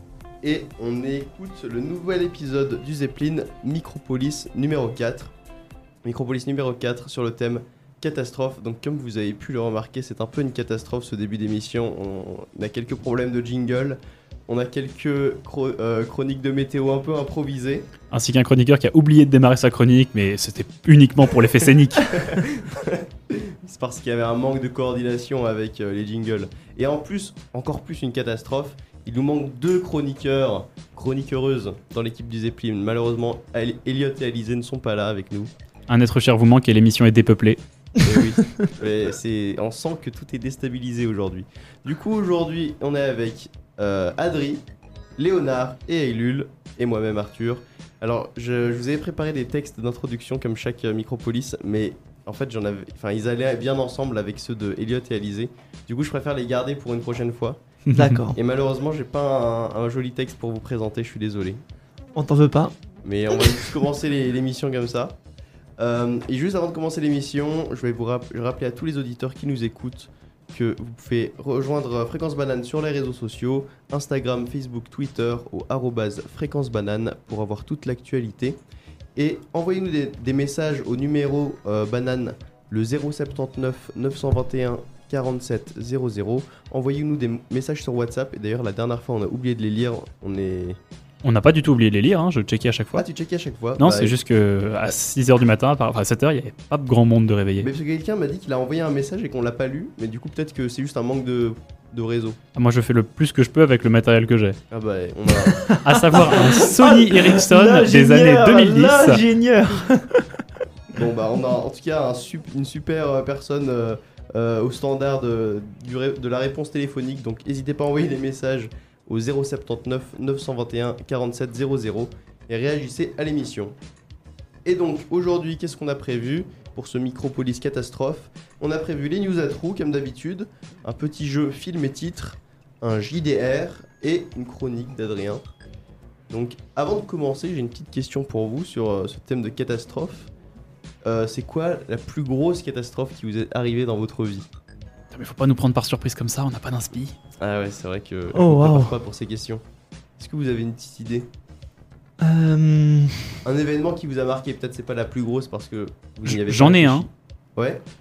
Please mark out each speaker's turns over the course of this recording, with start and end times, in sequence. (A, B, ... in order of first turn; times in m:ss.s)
0:00.4-0:05.3 A
0:06.0-0:17.9 A
0:18.1-0:22.3 B
0:22.2-0:35.5 A
0:35.9-0:37.6 B
0:38.0-0:44.6 A
0:45.2-0:57.6 A
0:57.9-0:58.2 B
0:57.9-0:58.4 C
0:58.3-1:01.6 A
1:02.2-1:02.8 C
1:03.0-1:05.2 A
1:05.8-1:18.6 A
1:19.2-1:30.8 A
1:31.2-1:33.1 B
1:33.0-1:34.2 A
1:33.8-1:37.7 B
1:37.6-1:42.4 A
1:42.6-1:44.6 B
1:44.7-1:45.6 A
1:45.5-1:50.3 C
1:45.8-1:49.2 B
1:50.9-2:03.8 A
2:04.6-2:15.4 A
2:16.3-2:20.3 A
2:21.0-2:24.5 A
2:25.1-2:27.1 B
2:27.4-2:29.6 A
2:28.3-2:29.0 C
2:30.2-2:31.3 A
2:32.2-2:33.4 C
2:33.4-2:37.8 A
2:36.3-2:37.1 B